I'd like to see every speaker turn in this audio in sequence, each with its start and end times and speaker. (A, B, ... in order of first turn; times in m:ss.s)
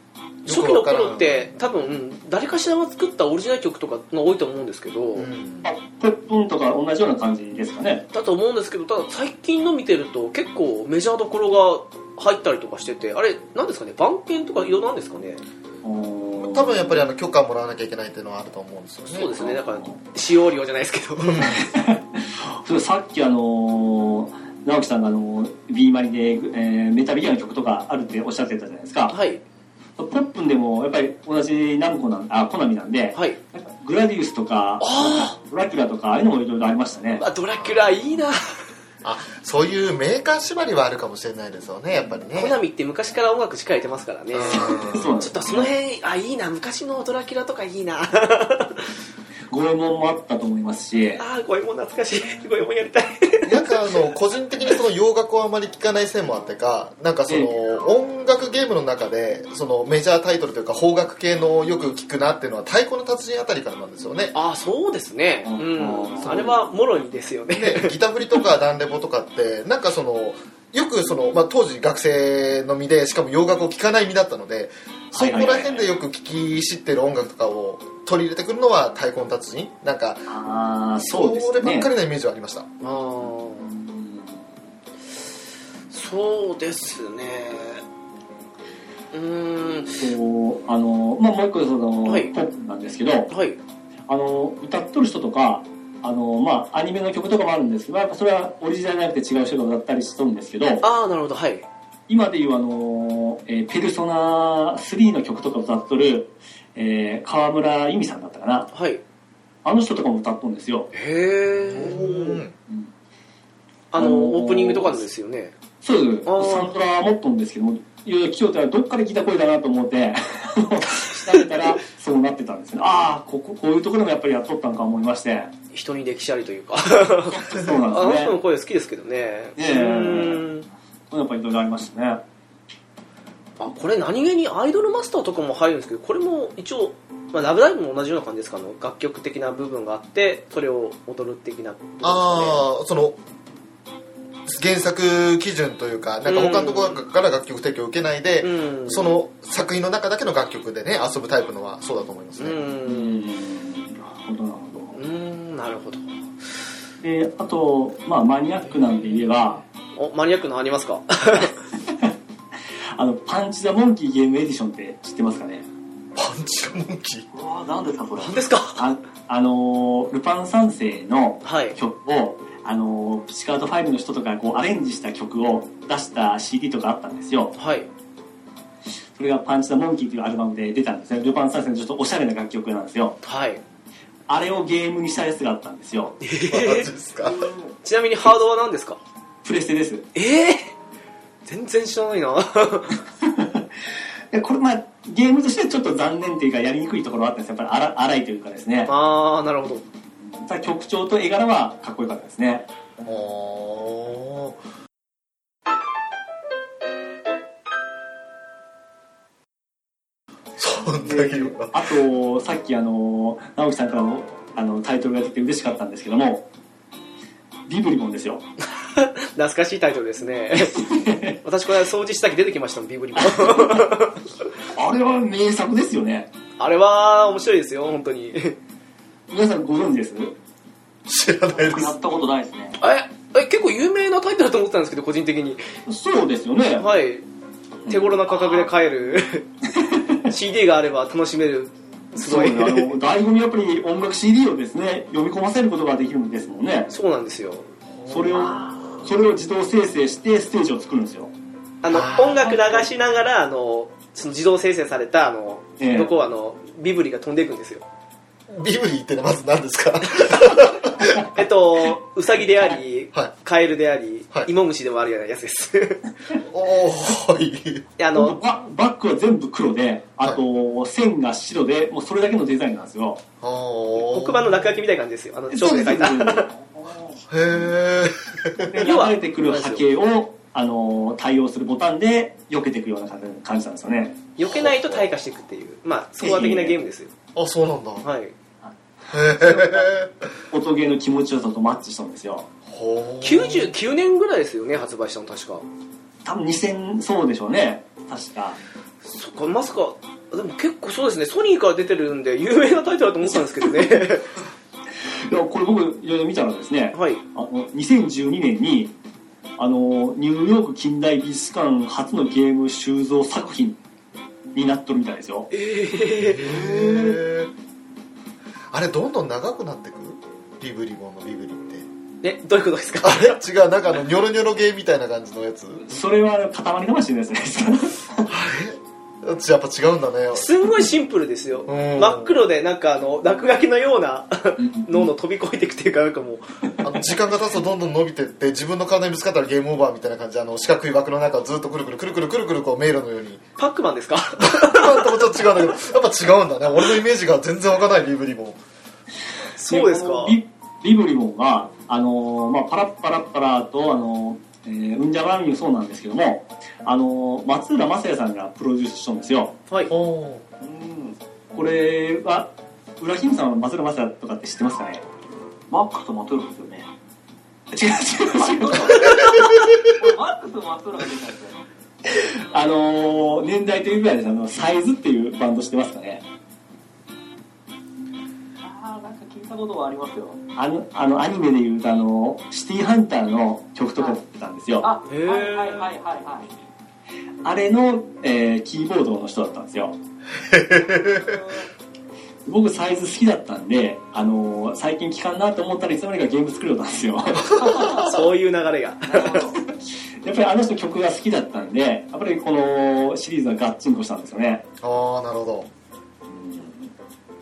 0:00.4-0:05.3 A
0:00.4-0:01.5 B
0:05.2-0:05.7 B
0:05.6-0:08.0 C
0:08.1-0:15.4 A
0:15.8-0:17.0 C
0:16.4-0:19.5 B
0:19.1-0:21.6 A
0:19.4-0:20.0 C
0:21.2-0:21.6 B
0:21.4-0:29.1 C
0:29.1-0:29.4 A
0:30.0-0:37.2 C
0:34.8-0:35.4 A
0:37.2-0:38.6 A
0:37.6-0:38.2 B
0:39.0-0:42.6 B
0:42.3-0:48.9 A
0:44.3-0:45.2 B
0:44.6-0:45.7 C
0:49.5-0:51.2 C
0:51.2-0:53.9 A
0:53.4-1:04.3 B
1:04.3-1:07.9 A
1:05.4-1:06.5 C
1:07.6-1:20.3 B
1:15.1-1:15.9 C
1:20.3-1:21.9 C
1:21.0-1:22.6 B
1:22.8-1:23.7 A
1:23.6-1:24.4 C
1:25.9-1:27.8 A
1:29.1-1:30.0 A
1:30.0-1:33.3 C
1:32.1-1:32.3 A
1:33.3-1:33.6 A
1:34.1-1:40.8 C
1:40.8-1:41.6 A
1:42.1-1:48.7 C
1:48.7-1:49.0 A
1:49.6-1:50.9 C
1:50.9-1:52.4 A
1:51.6-1:52.5 B
1:53.9-1:55.5 A
1:54.0-1:55.0 C
1:55.8-2:05.5 C
1:56.2-1:56.7 A
2:05.7-2:10.6 A
2:07.3-2:08.4 C
2:09.6-2:10.4 C
2:11.1-2:12.2 C
2:13.6-2:22.6 A
2:22.0-2:23.2 B
2:24.5-2:32.6 B
2:26.2-2:27.0 A
2:28.4-2:29.2 A
2:32.4-2:33.2 A
2:32.8-2:35.0 C
2:34.9-2:36.1 A
2:37.0-2:39.6 C
2:38.9-2:39.2 A
2:39.9-2:41.6 A
2:42.9-2:45.6 C
2:46.1-2:47.3 B
2:47.3-2:48.5 D
2:48.2-2:48.9 A
2:48.8-2:57.5 C
2:51.4-2:51.8 A
2:57.5-2:57.9 A
2:59.2-3:03.2 C
3:03.2-3:03.6 A
3:04.3-3:06.2 C
3:06.2-3:06.9 A
3:06.5-3:07.4 B
3:07.2-3:07.7 D
3:07.8-3:09.0 A
3:09.4-3:10.1 C
3:10.1-3:10.7 A
3:11.4-3:13.0 A
3:13.2-3:13.7 C
3:14.3-3:18.9 C
3:18.9-3:19.8 A
3:20.3-3:22.6 C
3:23.0-3:24.6 B
3:30.6-3:31.8 B
3:31.0-3:36.4 C
3:37.7-3:38.4 C
3:38.8-3:44.2 A
3:40.7-3:41.4 C
3:43.2-3:43.9 C
3:44.7-3:46.3 C
3:46.6-3:48.6 A
3:49.3-3:50.3 C
3:51.1-3:51.9 B
3:51.5-3:52.8 D
3:52.8-3:55.7 A
3:55.8-3:56.8 C
3:56.8-3:57.2 A
3:57.8-3:58.2 C
3:57.9-3:59.4 A
3:58.3-3:58.7 D
3:59.7-4:00.2 C
4:00.3-4:02.9 A
4:02.2-4:06.9 C
4:06.9-4:07.7 A
4:07.9-4:08.6 B
4:08.1-4:11.3 C
4:11.8-4:17.8 A
4:11.9-4:12.6 B
4:12.2-4:12.8 C
4:15.8-4:16.1 C
4:18.5-4:21.2 B
4:21.3-4:26.0 A
4:26.4-4:27.8 B
4:28.0-4:28.4 A
4:28.1-4:33.2 C
4:33.4-4:34.7 B
4:34.0-4:36.5 A
4:35.5-4:36.9 C
4:37.3-4:38.7 B
4:38.6-4:44.3 C
4:38.7-4:39.8 A
4:44.4-4:47.1 A
4:44.4-4:45.0 B
4:46.2-4:46.8 C
4:47.3-4:48.1 B
4:48.0-4:48.3 A
4:49.1-4:50.3 B
4:49.4-4:49.8 A
4:50.5-4:52.4 C
4:52.7-4:53.7 B
4:53.2-4:55.6 A
4:56.2-4:58.6 C
4:59.0-5:04.3 A
5:03.6-5:04.0 C
5:05.2-5:08.9 C
5:06.9-5:07.2 A
5:09.6-5:13.8 C
5:14.5-5:15.5 C
5:15.5-5:16.6 A
5:16.2-5:17.5 B
5:18.7-5:21.8 B
5:22.2-5:23.4 A
5:23.0-5:25.9 B
5:25.8-5:28.3 C
5:28.3-5:30.5 B
5:30.3-5:36.4 A
5:31.7-5:32.4 B
5:34.6-5:35.1 C
5:36.8-5:43.4 B
5:43.6-5:45.4 A
5:44.4-5:48.6 B
5:49.6-5:50.4 A
5:49.6-5:59.5 C
5:59.9-6:00.4 B
6:00.6-6:01.2 D
6:01.5-6:05.0 C
6:05.7-6:06.9 D
6:07.7-6:09.4 C
6:08.3-6:11.6 D
6:09.2-6:09.8 B
6:12.0-6:16.2 C
6:18.6-6:20.4 D
6:20.5-6:24.9 C
6:24.8-6:26.5 D
6:25.1-6:25.9 A
6:27.4-6:29.9 C
6:30.3-6:31.4 B
6:31.0-6:31.7 D
6:32.4-6:38.0 C
6:37.5-6:38.1 D
6:37.8-6:39.5 A
6:39.1-6:39.6 D
6:40.2-6:44.6 C
6:44.8-6:45.7 B
6:46.3-6:46.9 C